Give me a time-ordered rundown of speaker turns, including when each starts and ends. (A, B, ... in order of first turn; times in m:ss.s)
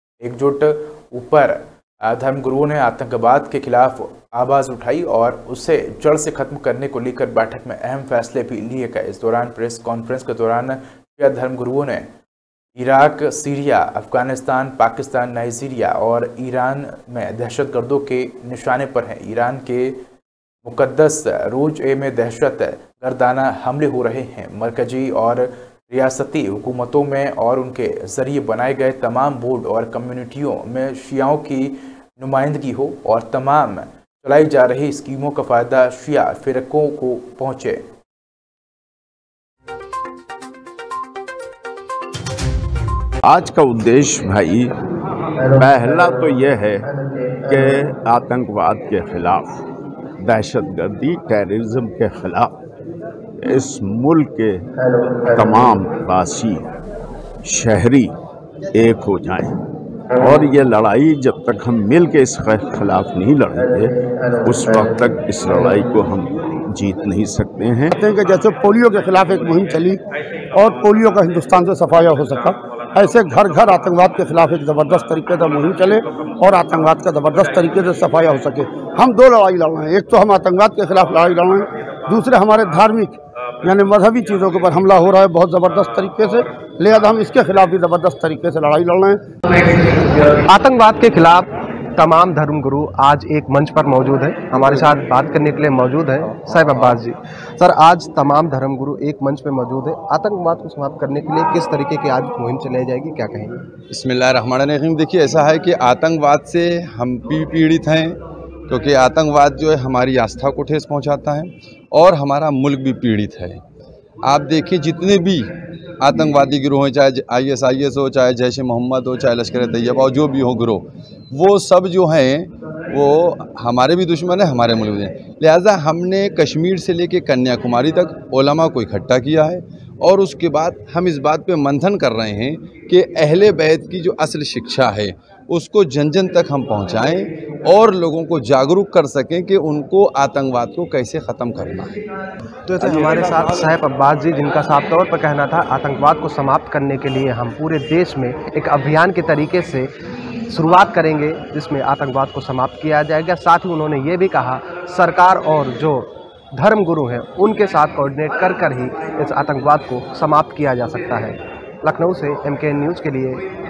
0:00.2-0:12.1 A
0:12.8-0:20.0 A
0:20.6-0:37.8 A
0:43.3-0:44.7 B
0:45.4-0:46.3 C
0:45.5-0:46.9 B
0:46.8-0:47.8 C
0:47.5-0:49.6 B
0:50.2-0:52.6 B
0:53.4-0:54.6 B
0:54.8-0:55.7 C
0:55.3-0:56.6 B
0:57.4-0:58.1 B
0:58.7-0:59.6 B
1:00.2-1:08.0 B
1:04.0-1:04.9 C
1:08.0-1:10.0 D
1:10.5-1:29.2 D
1:30.4-1:43.6 C
1:34.6-1:35.0 E
1:36.4-1:37.0 E
1:43.9-1:53.6 E
1:54.2-2:22.0 E
2:22.7-2:29.9 C
2:22.8-2:23.8 E
2:30.5-2:43.4 C